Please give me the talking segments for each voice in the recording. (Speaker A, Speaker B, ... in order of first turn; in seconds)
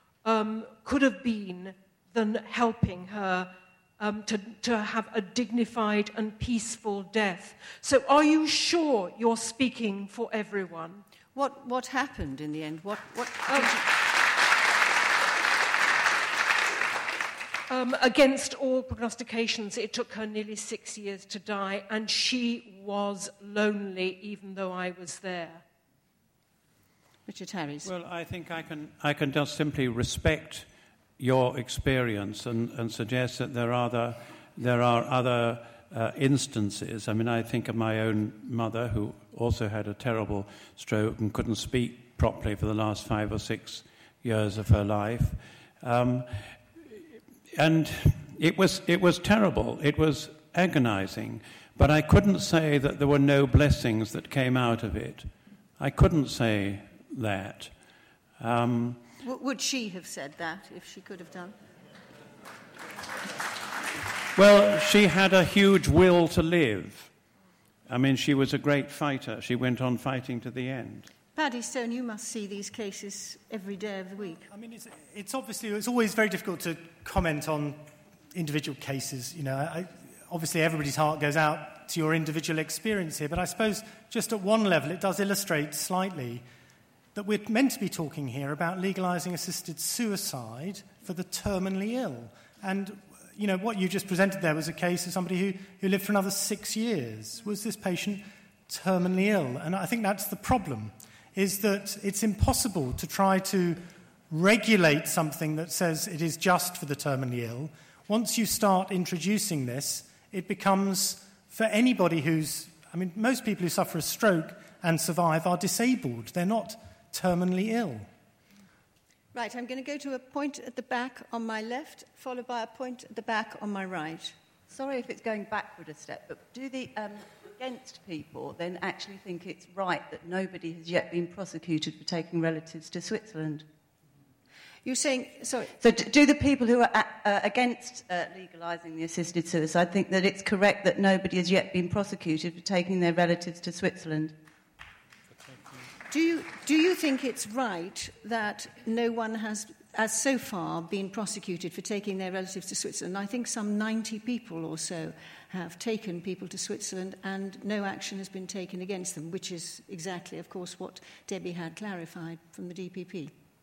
Speaker A: 0.2-11.0, 13.5-13.8, 17.7-25.6
Speaker B: 11.3-13.9, 27.3-27.9, 59.2-61.5, 71.4-74.5, 119.3-124.3, 134.8-135.7, 146.1-163.3
Speaker C: 27.8-30.7, 31.2-46.8, 47.5-57.8, 58.4-59.0, 64.4-67.1, 67.9-71.1
Speaker D: 74.5-77.8, 78.3-86.5, 87.2-118.1
Speaker E: 124.7-133.7, 135.7-144.4